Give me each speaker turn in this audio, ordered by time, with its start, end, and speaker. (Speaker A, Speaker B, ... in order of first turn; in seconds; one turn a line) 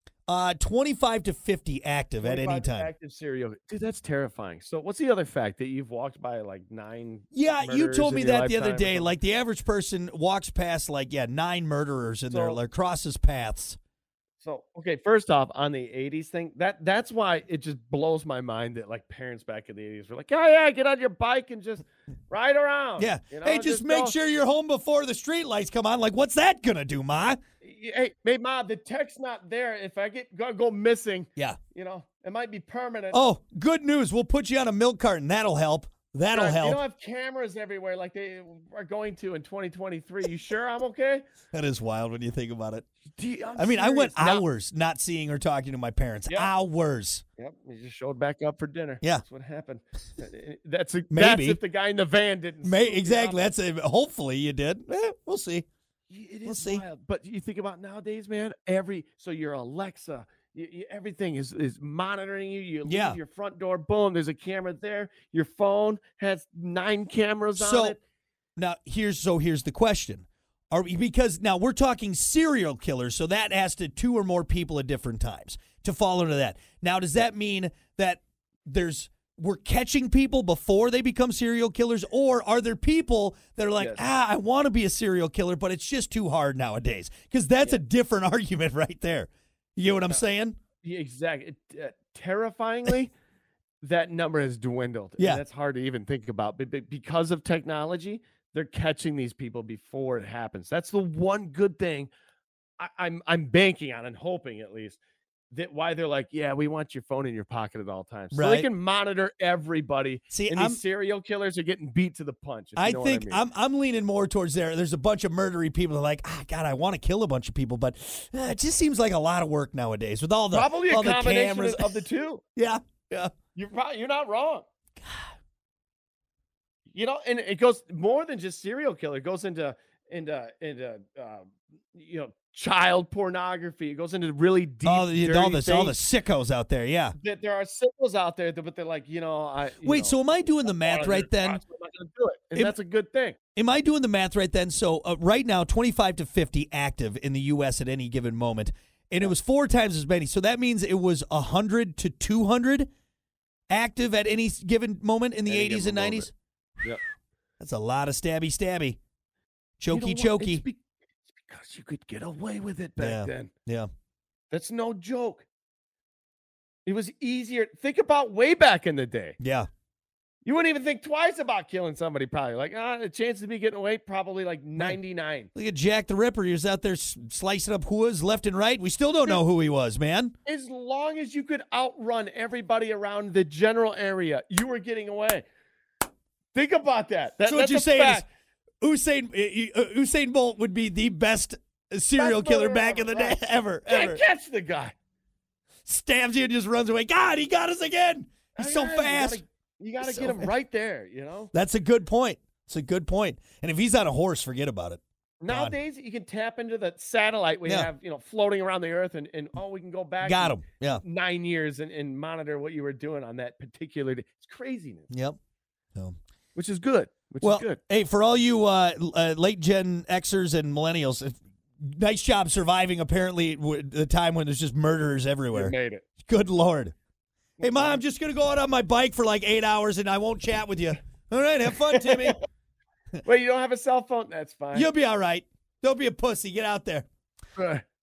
Speaker A: 0.3-2.9
Speaker B: 2.2-9.1
Speaker A: 7.3-13.8
Speaker B: 12.3-12.6
Speaker B: 14.4-24.1
Speaker A: 23.0-27.4
Speaker B: 27.6-33.2
Speaker A: 33.1-36.8
Speaker B: 36.3-41.3
Speaker A: 41.5-42.9
Speaker B: 43.1-44.4
Speaker A: 43.6-47.2
Speaker B: 47.4-53.4
Speaker A: 51.1-51.6
Speaker A: 52.6-55.6
Speaker B: 56.1-68.0
Speaker A: 56.4-56.8
Speaker A: 62.8-63.2
Speaker A: 67.6-68.0
Speaker A: 68.6-90.6
Speaker B: 83.8-84.0
Speaker B: 90.8-93.1
Speaker B: 93.8-102.1
Speaker B: 102.8-105.0
Speaker B: 105.5-113.4
Speaker A: 108.3-108.7
Speaker A: 110.3-110.8
Speaker A: 112.8-122.0
Speaker B: 120.5-122.4
Speaker A: 122.6-123.4
Speaker B: 123.5-124.6
Speaker A: 125.0-125.3
Speaker B: 126.9-136.0
Speaker A: 134.8-137.2
Speaker B: 137.2-143.4
Speaker A: 139.8-141.6
Speaker A: 143.5-152.9
Speaker A: 153.7-156.3
Speaker B: 155.5-156.3
Speaker A: 157.6-159.0
Speaker A: 159.8-160.6
Speaker B: 159.9-160.8
Speaker B: 161.4-163.5
Speaker A: 163.0-163.9
Speaker B: 164.5-165.4
Speaker B: 166.8-169.4
Speaker A: 169.4-169.7
Speaker B: 170.4-175.5
Speaker A: 175.5-180.3
Speaker B: 180.4-185.4
Speaker B: 186.5-188.3
Speaker A: 187.4-188.2
Speaker A: 188.8-194.2
Speaker B: 192.2-194.9
Speaker A: 195.8-199.4
Speaker B: 198.6-201.5
Speaker A: 200.0-200.5
Speaker A: 201.5-205.7
Speaker B: 205.4-215.1
Speaker A: 210.2-211.0
Speaker A: 215.1-215.4
Speaker B: 216.5-217.8
Speaker A: 217.4-226.9
Speaker B: 225.5-226.0
Speaker B: 227.6-228.0
Speaker A: 227.6-232.4
Speaker B: 232.0-232.3
Speaker B: 233.2-234.9
Speaker A: 234.7-237.1
Speaker B: 237.6-237.8